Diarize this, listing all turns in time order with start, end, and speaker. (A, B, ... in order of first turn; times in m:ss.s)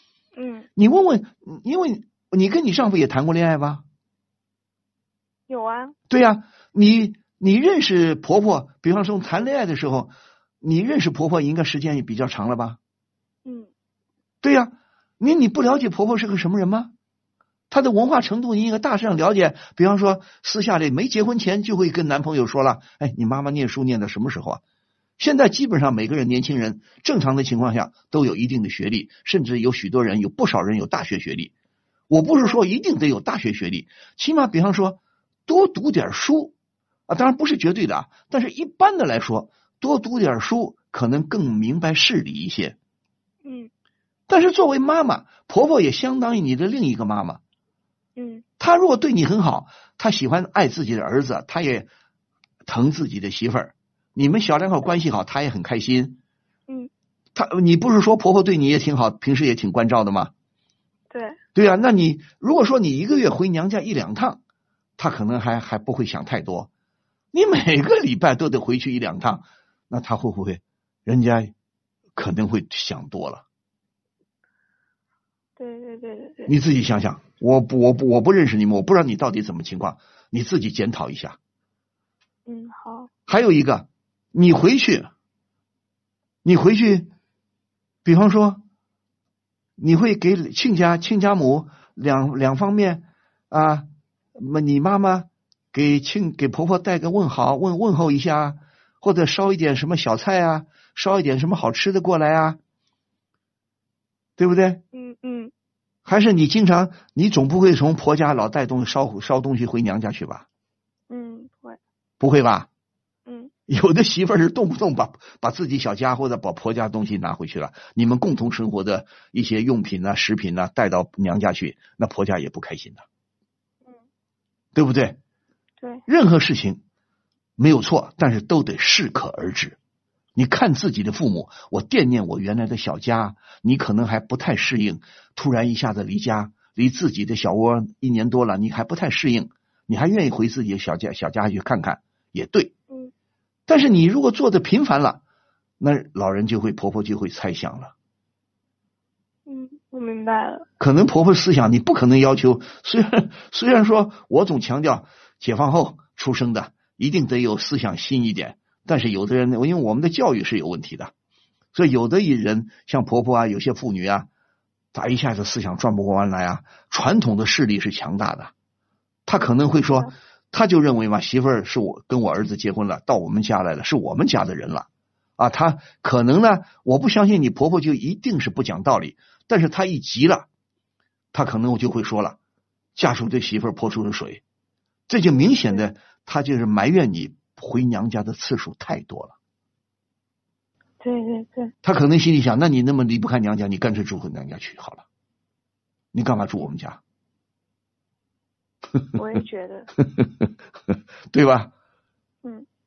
0:00.4-0:00.7 A
0:00.8-0:03.8 B
0:05.5-0:06.0 A
0:06.1-0:12.8 B
0:13.4-0:13.7 A
0:14.4-0:16.9 B
0:17.7-0:24.6 B
0:25.2-0:31.5 B
0:32.1-0:36.5 B
0:37.1-0:42.8 B
0:43.4-0:43.7 A
0:44.3-0:47.4 B
0:48.2-0:48.4 A
0:48.6-0:51.9 B
0:52.7-0:56.2 B
0:57.4-1:00.3 B
1:01.1-1:01.4 A
1:01.6-1:04.4 B
1:05.0-1:06.7 B
1:07.3-1:11.5 B
1:12.2-1:13.4 B
1:15.6-1:16.5 A
1:16.5-1:21.4 B
1:22.5-1:23.1 A
1:23.3-1:25.1 B
1:26.4-1:27.1 B
1:28.0-1:28.6 B
1:29.8-1:42.6 B
1:44.4-1:44.8 B
1:44.9-1:45.5 A
1:46.1-1:50.5 B
1:51.1-1:51.8 A
1:52.2-1:52.7 B
1:53.3-1:53.5 A
1:53.7-2:03.0 B
2:04.8-2:05.2 B
2:06.1-2:06.8 B
2:07.6-2:09.8 B
2:10.4-2:22.7 B
2:23.7-2:25.2 B
2:25.8-2:27.9 B
2:29.5-2:30.7 A
2:30.8-2:41.1 B
2:41.7-2:44.3 B
2:44.9-2:48.5 B
2:49.3-2:54.9 B
2:55.4-3:00.5 B
3:01.3-3:02.4 B
3:03.0-3:04.4 B
3:05.1-3:09.4 B
3:05.4-3:05.8 A
3:11.0-3:11.7 A
3:11.8-3:15.0 B
3:16.1-3:17.0 B
3:19.2-3:19.9 A
3:21.3-3:21.7 B